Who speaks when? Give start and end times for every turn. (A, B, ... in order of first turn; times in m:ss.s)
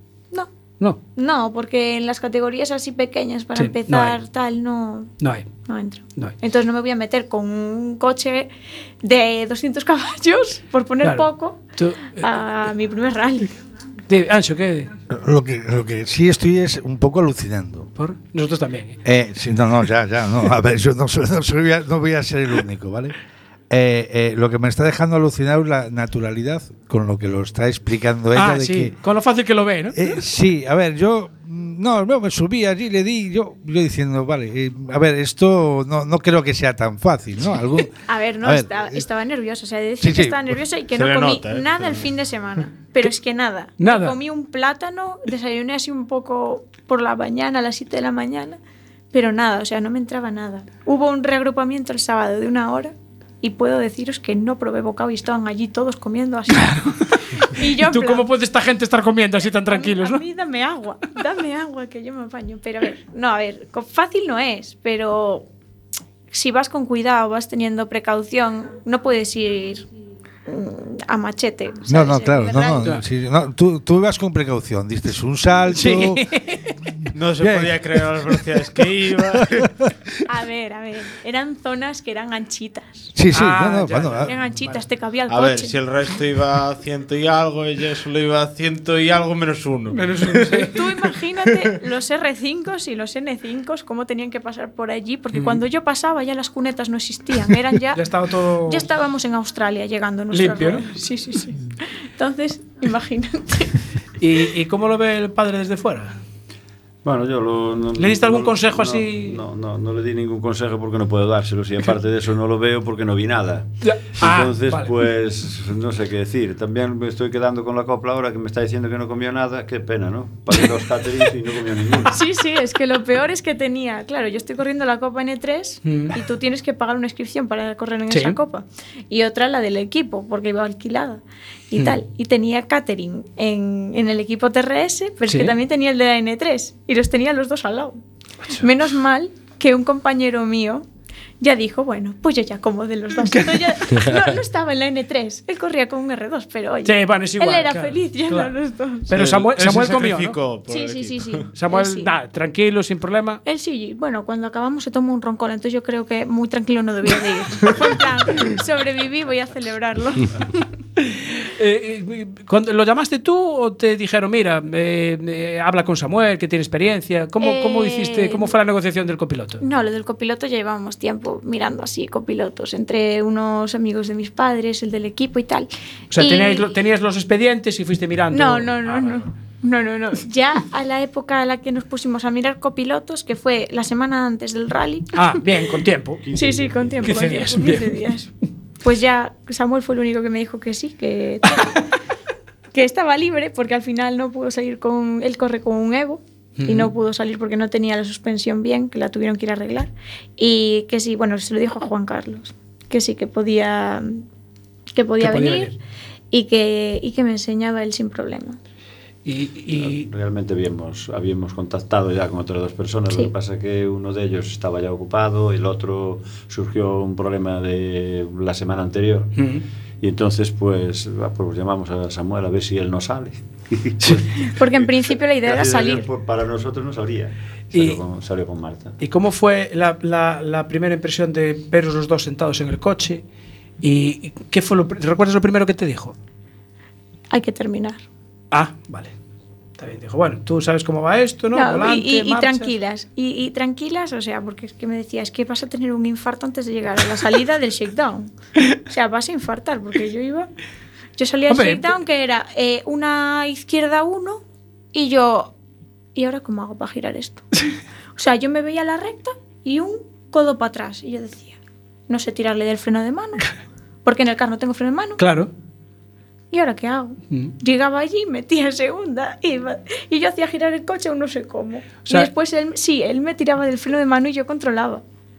0:01.1-0:05.1 A
0:03.5-0:04.2 B
0:05.2-0:05.5 B
0:05.6-0:13.5 A
0:11.0-0:12.3 B
0:14.1-0:14.9 B
0:15.1-0:17.9 C
0:18.0-0:19.0 B
0:19.0-0:23.1 C
0:23.7-0:28.9 C
0:28.3-0:30.0 B
0:29.9-0:39.0 C
0:38.0-0:48.6 A
0:40.0-0:40.4 C
0:41.0-0:42.0 D
0:43.8-0:44.2 B
0:49.1-0:58.3 A
0:56.5-1:00.2 B
0:59.6-1:05.5 A
1:06.3-1:09.8 A
1:10.4-1:12.9 A
1:11.9-1:16.3 C
1:15.7-1:16.7 B
1:17.1-1:19.7 D
1:17.4-1:17.8 C
1:19.4-1:19.7 C
1:20.3-1:23.1 A
1:23.1-1:24.3 C
1:23.3-1:24.8 B
1:24.2-1:25.7 A
1:25.3-1:30.5 D
1:29.9-1:30.8 B
1:30.6-1:38.1 A
1:35.3-1:35.6 B
1:37.9-1:38.9 B
1:38.6-1:43.8 A
1:40.3-1:40.9 B
1:44.2-1:46.2 B
1:47.0-2:02.2 E
1:48.0-1:49.4 B
1:53.8-1:55.0 B
2:02.1-2:18.0 A
2:05.8-2:06.2 B
2:08.1-2:08.4 B
2:11.7-2:12.0 B
2:15.3-2:15.6 B
2:18.6-2:20.9 A
2:21.4-2:29.2 A
2:23.2-2:23.7 B
2:26.8-2:28.5 B
2:29.1-2:30.4 B
2:29.1-2:31.4 D
2:30.7-2:32.1 A
2:31.5-2:33.4 B
2:33.4-2:40.6 A
2:41.0-2:49.6 B
2:47.4-2:48.5 A
2:49.6-2:56.7 A
2:56.1-2:59.2 B
2:58.3-3:05.4 A
3:05.1-3:06.2 B
3:06.2-3:07.1 E
3:06.3-3:08.3 A
3:07.0-3:08.0 B
3:08.8-3:11.8 A
3:12.7-3:24.2 A
3:16.6-3:16.9 B
3:24.9-3:25.8 A
3:25.2-3:25.8 B
3:26.3-3:28.6 A
3:29.2-3:30.1 B
3:29.7-3:39.4 E
3:39.4-3:39.6 B
3:40.0-3:49.0 E
3:44.4-3:46.1 A
3:47.7-3:48.0 B
3:49.0-3:53.2 B
3:53.8-3:56.1 B
3:57.3-3:58.0 A
3:58.5-3:59.1 B
3:59.8-4:02.7 B
4:01.5-4:08.3 A
4:08.8-4:10.5 A
4:11.2-4:15.5 A
4:11.5-4:11.9 B
4:16.1-4:17.4 A
4:18.2-4:23.5 A
4:24.0-4:25.2 A
4:25.2-4:25.5 B
4:26.5-4:35.0 A
4:32.0-4:32.3 B